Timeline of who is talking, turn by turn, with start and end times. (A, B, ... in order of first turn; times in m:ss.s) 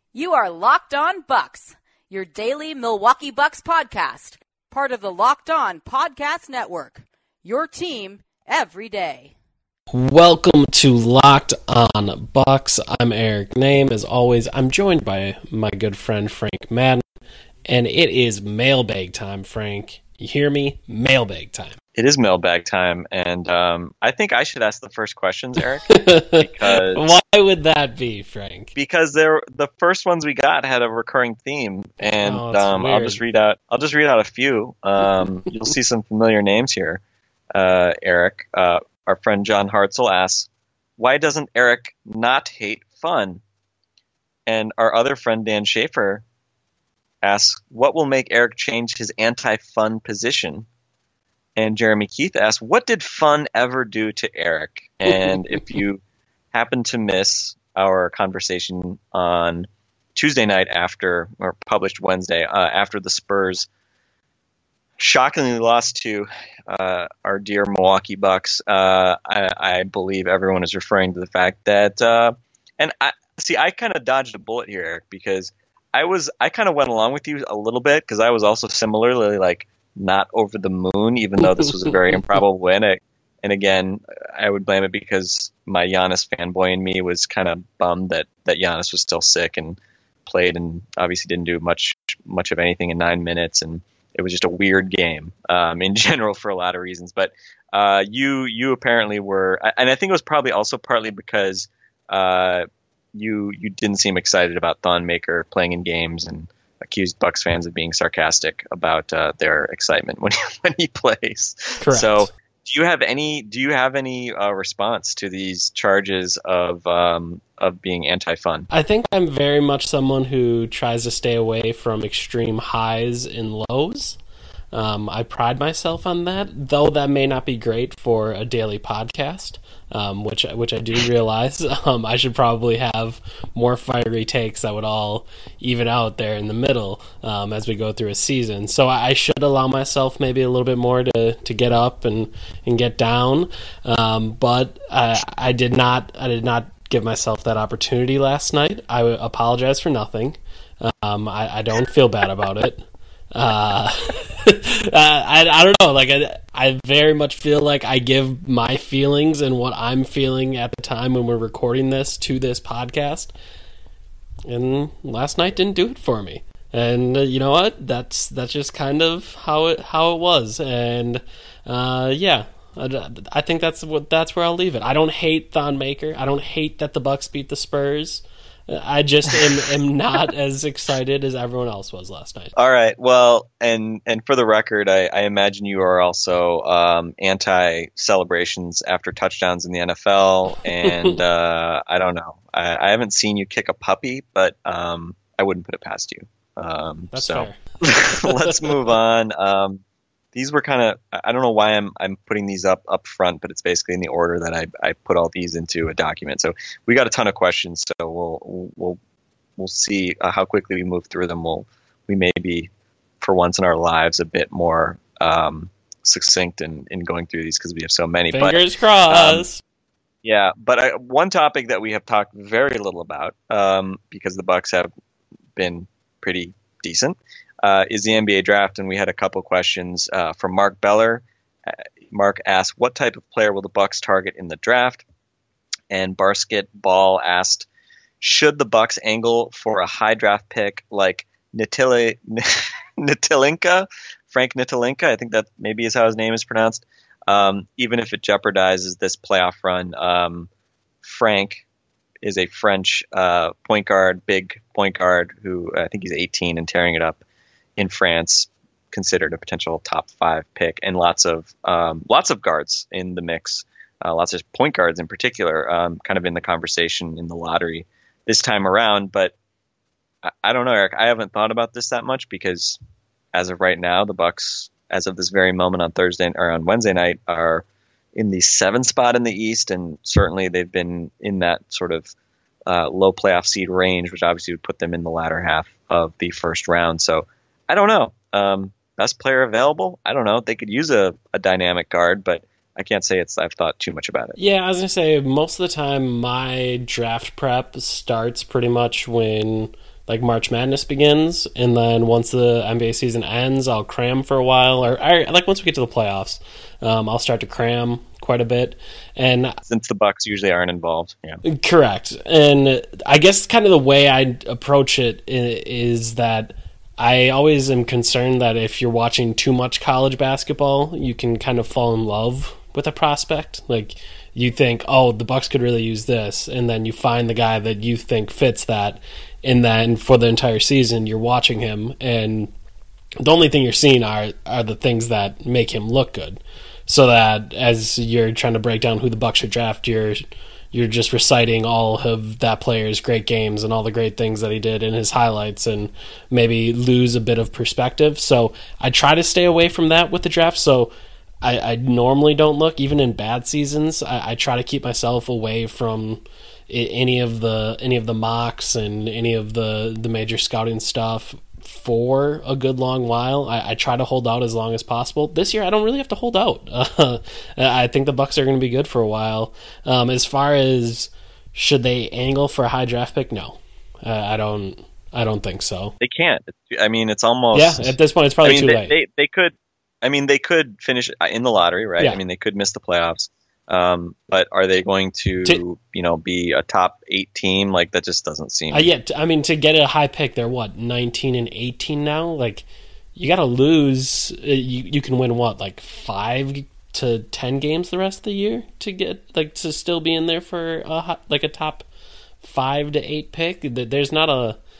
0:00.1-0:09.3 A
0:09.9-0:17.0 B
0:17.7-0:21.8 B
0:22.0-0:27.0 C
0:25.9-0:28.7 B
0:28.8-0:37.0 C
0:32.0-0:33.2 B
0:37.6-0:43.4 C
0:44.5-0:46.2 C
0:47.2-0:50.7 C
0:51.6-0:56.0 C
0:56.5-1:03.7 C
1:05.0-1:58.7 C
1:51.8-1:52.3 B
1:58.7-2:04.2 B
2:04.7-2:43.3 B
2:44.5-3:02.5 B
3:02.6-3:19.8 C
3:10.8-3:11.2 B
3:17.1-3:17.6 B
3:18.2-3:18.8 B
3:20.3-3:29.0 C
3:29.6-3:39.5 C
3:38.3-3:39.6 B
3:40.2-3:44.9 C
3:45.6-3:55.0 C
3:55.9-3:57.7 C
3:58.2-4:10.5 C
4:11.0-4:11.6 C
4:12.2-4:17.2 C
4:17.8-4:29.3 C
4:30.2-4:32.8 C
4:33.3-4:42.1 C
4:42.7-4:54.4 C
4:54.4-5:09.6 B
5:09.7-5:11.4 C
5:11.4-5:32.5 B
5:33.2-5:50.9 B
5:51.4-6:16.0 B
6:16.0-6:28.9 C
6:17.5-6:18.9 B
6:28.7-6:41.9 B
6:42.4-6:44.6 B